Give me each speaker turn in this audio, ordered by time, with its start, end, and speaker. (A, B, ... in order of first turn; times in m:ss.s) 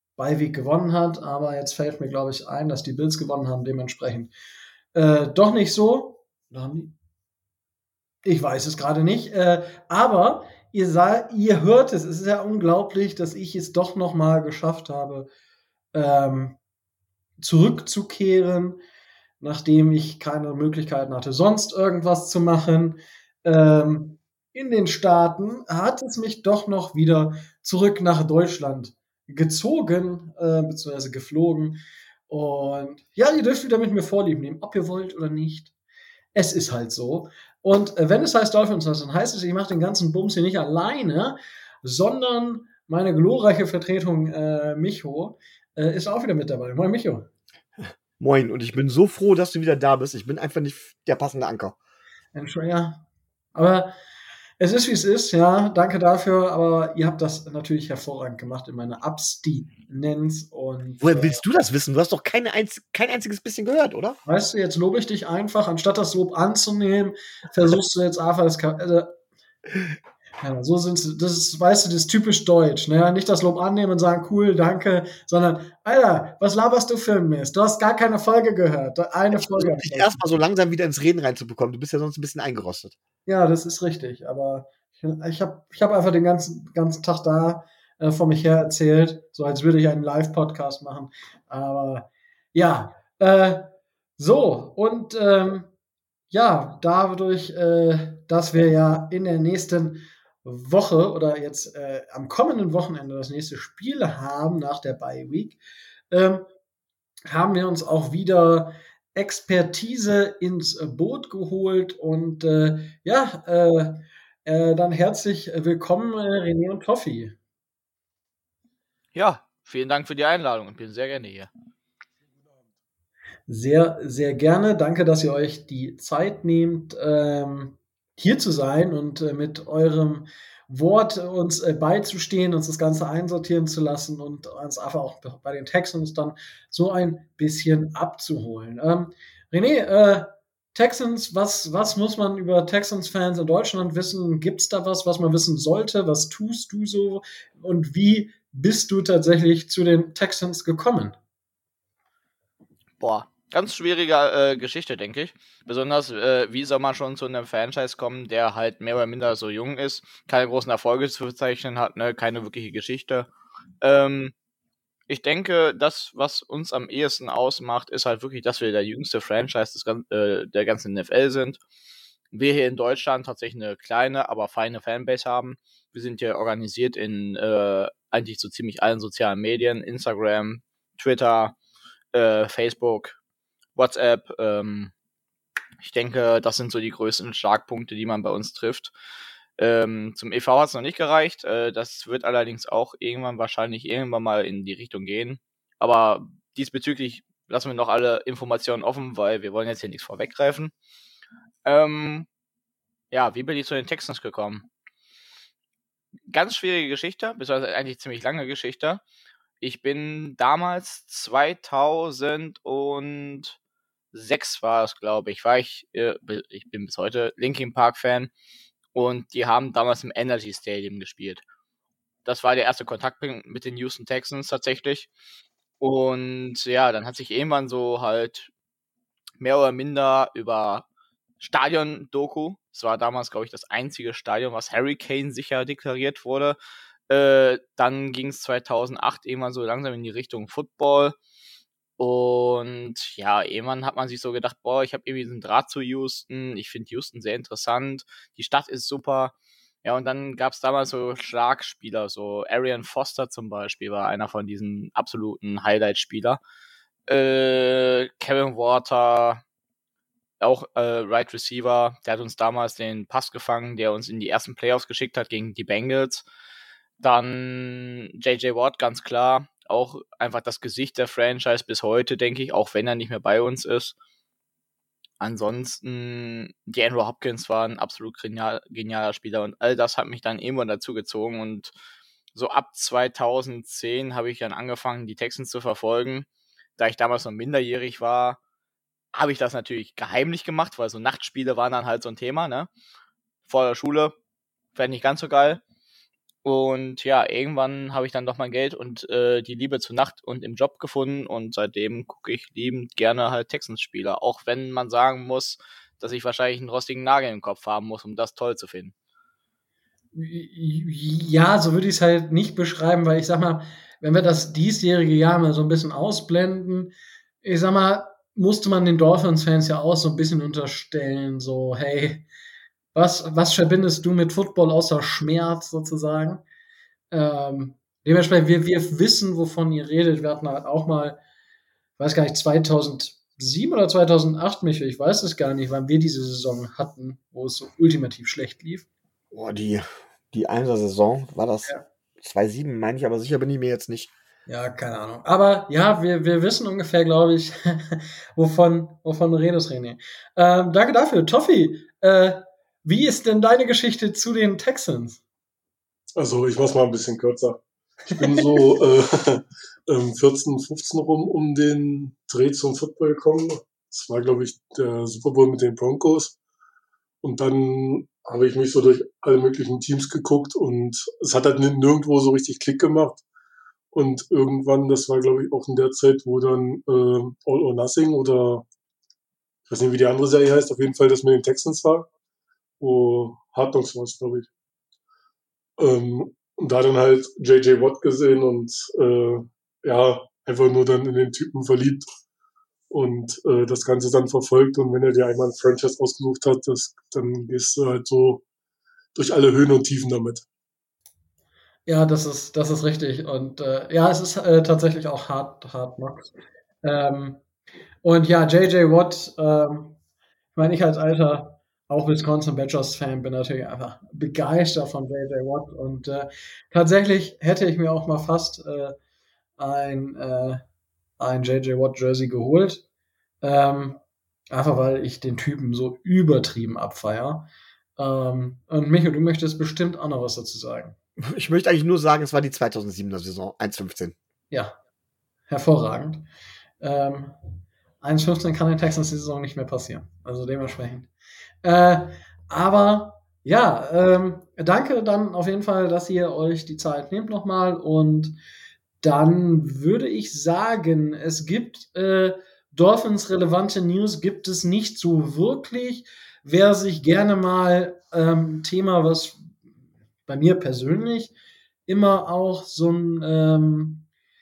0:00.2-0:04.3 A
0:04.9-0:06.9 A
0:08.2-0:15.3 A
0:15.9-0:16.6 A
0:17.4-0:18.8 A
0:19.4-0:35.7 A
0:36.3-0:47.3 A
0:48.2-0:51.7 B
0:52.3-0:53.0 A
0:53.5-0:53.9 A
0:54.6-1:01.4 A
1:01.0-1:04.2 B
1:04.2-1:09.1 A
1:10.4-1:20.2 A
1:19.3-1:23.0 B
1:23.2-1:35.7 A
1:36.3-1:45.6 A
1:46.1-1:46.4 A
1:47.3-1:57.4 A
1:59.1-2:01.5 C
2:02.4-2:02.7 D
2:03.5-2:31.1 A
2:33.0-2:43.3 C
2:43.8-2:44.3 C
2:45.1-2:51.6 C
2:52.3-3:01.6 C
3:02.1-3:03.2 C
3:03.8-3:04.9 C
3:05.8-3:08.9 C
3:09.6-3:20.7 C
3:21.6-3:22.3 C
3:23.1-3:24.6 C
3:26.3-3:29.0 C
3:29.6-3:33.6 C
3:34.1-3:38.3 C
3:38.9-3:41.4 C
3:42.2-3:45.1 C
3:45.8-3:48.5 C
3:49.4-3:50.8 C
3:51.4-3:56.6 C
3:57.1-4:01.2 C
4:02.0-4:16.4 C
4:17.1-4:19.4 C
4:20.4-4:26.2 C
4:27.0-4:33.9 C
4:35.2-4:41.7 C
4:42.3-4:46.3 C
4:46.8-4:48.4 C
4:49.1-4:52.7 C
4:53.5-4:54.2 C
4:54.7-4:55.6 C
4:56.4-5:08.9 C
5:10.1-5:16.9 A
5:17.4-5:22.2 A
5:22.9-5:26.4 A
5:27.1-5:31.2 A
5:32.0-5:38.8 A
5:39.3-5:44.1 B
5:44.5-5:55.2 A
5:56.2-6:06.4 D
5:58.2-5:58.6 A
6:07.2-6:13.2 D
6:13.9-6:18.6 D
6:19.7-6:22.1 D
6:22.8-6:24.5 D
6:25.8-6:32.0 D
6:32.9-6:38.4 D
6:39.1-6:40.4 D
6:41.8-6:46.3 A
6:46.8-6:47.4 A
6:48.0-6:50.0 A
6:50.6-6:59.0 A
6:59.6-7:00.6 A
7:01.2-7:02.8 A
7:03.4-7:10.9 A
7:11.2-7:14.1 B
7:15.5-7:16.2 A
7:16.8-7:17.3 A
7:18.0-7:21.1 A
7:21.6-7:28.3 A
7:29.0-7:39.4 A
7:40.3-7:41.3 A
7:41.9-7:44.0 A